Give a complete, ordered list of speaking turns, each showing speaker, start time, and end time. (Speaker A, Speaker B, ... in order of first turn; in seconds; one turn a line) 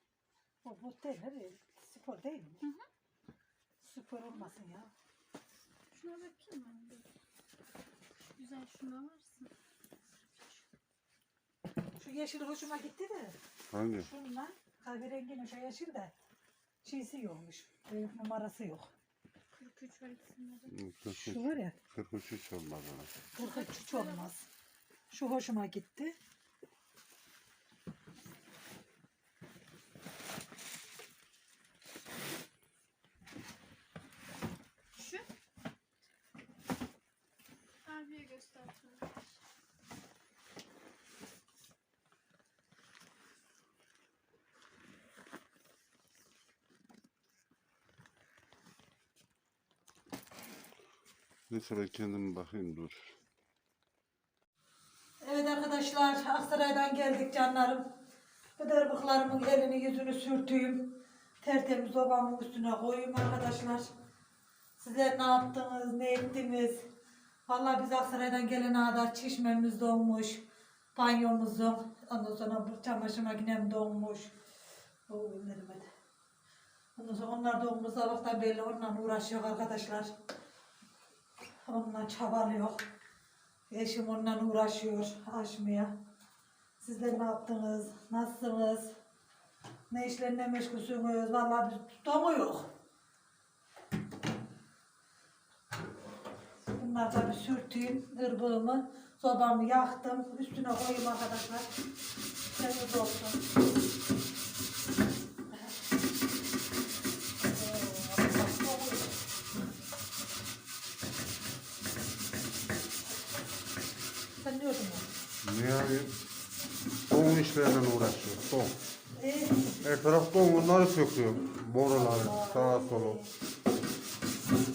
Speaker A: 0.6-2.6
Speaker B: 2.6-2.9
Speaker A: 3.8-4.9
Speaker B: 5.9-7.1
Speaker B: 8.2-9.5
Speaker A: 12.0-13.4
Speaker C: 13.7-14.1
Speaker A: 14.0-16.1
Speaker A: 16.8-18.9
Speaker B: 19.6-20.7
Speaker C: 20.7-23.1
Speaker A: 21.1-21.8
Speaker B: 23.4-24.3
Speaker A: 23.4-24.4
Speaker A: 25.1-26.1
Speaker B: 35.0-35.3
Speaker B: 37.9-39.3
Speaker C: 51.5-53.1
Speaker A: 55.2-57.9
Speaker A: 58.6-63.9
Speaker A: 64.8-66.9
Speaker A: 67.5-70.4
Speaker A: 71.0-74.3
Speaker A: 75.1-75.9
Speaker A: 77.0-80.1
Speaker A: 81.7-82.8
Speaker A: 83.7-86.0
Speaker A: 86.8-88.9
Speaker A: 89.9-92.7
Speaker A: 96.7-101.7
Speaker A: 102.5-103.5
Speaker A: 107.5-109.2
Speaker A: 114.4-115.1
Speaker C: 115.4-116.1
Speaker C: 117.1-118.8
Speaker A: 119.2-119.8
Speaker C: 119.8-123.2
Speaker A: 121.9-123.3